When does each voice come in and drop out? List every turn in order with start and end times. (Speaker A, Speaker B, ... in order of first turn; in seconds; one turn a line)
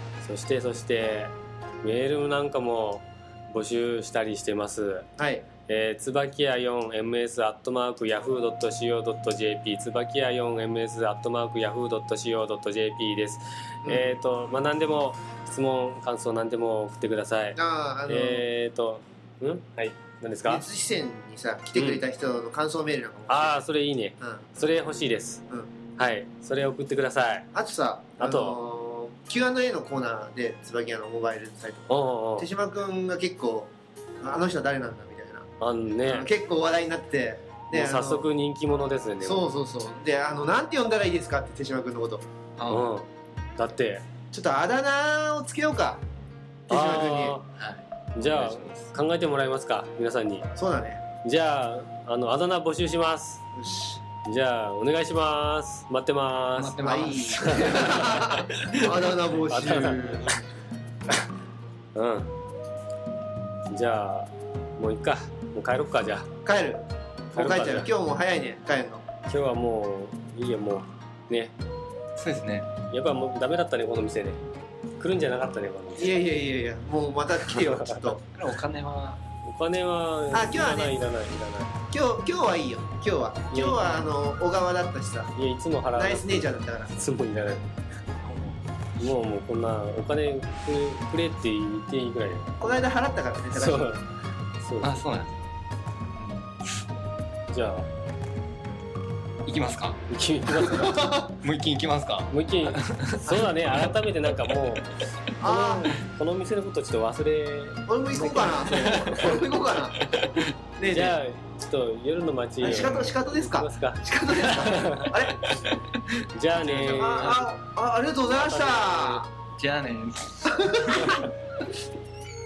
Speaker A: 0.2-5.1
Speaker B: 5.2-5.5
Speaker A: 5.7-20.6
Speaker B: 13.8-14.2
Speaker B: 17.6-18.5
Speaker B: 20.4-23.6
Speaker A: 21.8-22.0
Speaker A: 23.3-25.4
Speaker B: 24.2-24.5
Speaker A: 26.0-27.5
Speaker B: 27.5-35.5
Speaker A: 28.2-28.6
Speaker A: 31.9-32.5
Speaker A: 35.6-36.3
Speaker B: 36.0-38.3
Speaker A: 37.7-39.5
Speaker B: 39.2-42.2
Speaker C: 42.6-42.9
Speaker A: 42.7-44.0
Speaker B: 44.3-46.0
Speaker B: 46.7-47.4
Speaker A: 46.7-47.5
Speaker C: 47.5-48.9
Speaker A: 48.2-50.5
Speaker B: 50.6-51.0
Speaker A: 51.2-53.4
Speaker B: 53.5-54.0
Speaker A: 54.2-56.8
Speaker C: 56.6-60.5
Speaker B: 56.8-60.3
Speaker A: 57.5-57.8
Speaker A: 59.5-60.3
Speaker A: 62.0-62.3
Speaker A: 63.7-66.3
Speaker B: 66.5-69.0
Speaker A: 67.3-67.9
Speaker A: 69.3-71.5
Speaker C: 72.2-72.7
Speaker A: 72.9-74.4
Speaker A: 75.0-76.2
Speaker B: 76.0-78.2
Speaker A: 77.8-78.1
Speaker C: 78.3-79.2
Speaker A: 79.4-81.8
Speaker B: 80.3-81.0
Speaker B: 81.9-85.3
Speaker A: 83.5-84.1
Speaker A: 85.3-87.7
Speaker B: 86.0-87.0
Speaker C: 88.2-88.6
Speaker A: 89.0-92.8
Speaker B: 92.6-94.0
Speaker A: 93.5-94.0
Speaker A: 94.6-95.1
Speaker C: 94.8-95.5
Speaker C: 96.2-97.0
Speaker A: 97.5-97.9
Speaker C: 99.5-100.0
Speaker A: 100.1-101.3
Speaker B: 100.5-101.3
Speaker C: 101.4-103.4
Speaker A: 102.3-104.9
Speaker B: 105.4-106.0
Speaker A: 105.4-109.4
Speaker B: 107.9-110.0
Speaker C: 110.1-110.4
Speaker B: 110.8-111.2
Speaker A: 110.8-115.1
Speaker B: 112.6-115.4
Speaker C: 114.4-114.7
Speaker C: 115.4-117.5
Speaker A: 116.3-117.4
Speaker B: 117.0-119.3
Speaker A: 118.2-119.3
Speaker C: 119.6-121.3
Speaker B: 120.5-121.3